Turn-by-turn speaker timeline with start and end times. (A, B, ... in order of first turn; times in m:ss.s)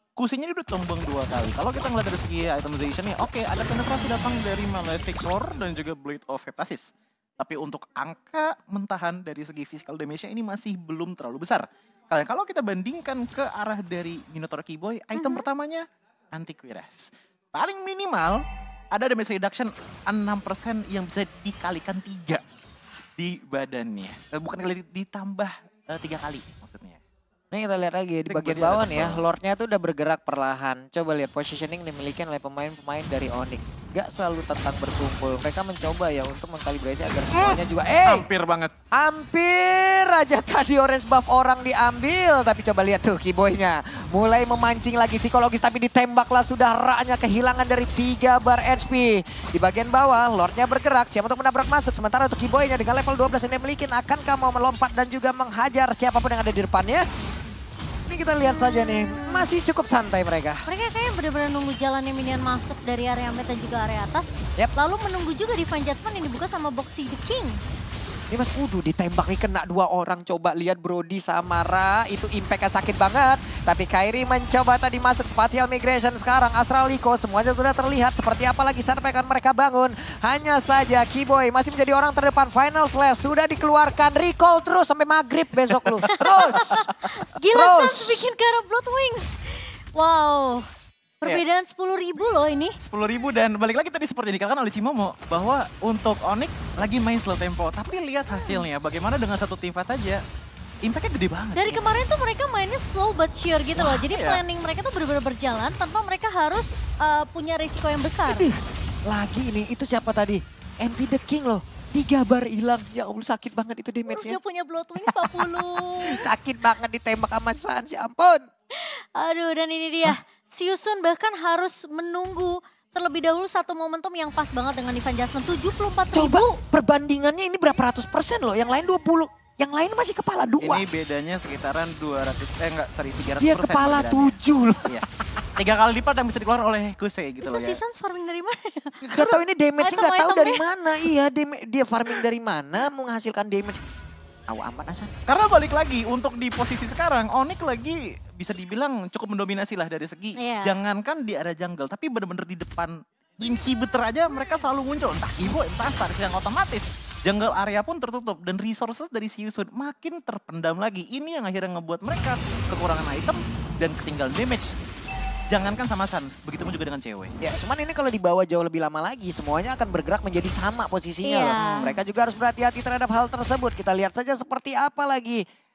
0:00.2-0:22.4 A
0:15.1-0:15.4 B
0:23.2-0:27.0 A
0:27.5-0:38.2 C
0:28.3-0:29.2 A
0:37.3-0:38.7 A
0:39.0-0:57.0 C
0:58.1-1:00.6 C
0:58.4-0:59.5 B
1:00.7-1:07.6 B
1:08.3-1:26.8 C
1:25.9-1:27.1 A
1:26.3-1:30.6 B
1:27.5-1:28.3 C
1:31.2-1:32.8 B
1:32.8-1:40.2 A
1:38.3-1:38.6 B
1:40.8-1:41.8 A
1:41.6-1:48.5 B
1:43.8-1:44.4 A
1:48.3-1:54.4 C
1:54.1-1:56.2 B
1:55.1-1:58.4 C
1:58.8-2:06.5 B
2:06.1-2:10.8 C
2:10.6-2:14.3 A
2:13.4-2:15.0 C
2:15.6-2:17.8 A
2:17.4-2:20.6 B
2:19.0-2:23.8 C
2:24.5-2:25.1 C
2:25.3-2:44.8 A
2:30.4-2:30.7 B
2:45.5-2:47.3 A
2:47.4-2:55.4 C
2:51.2-2:51.8 B
2:51.6-2:52.0 A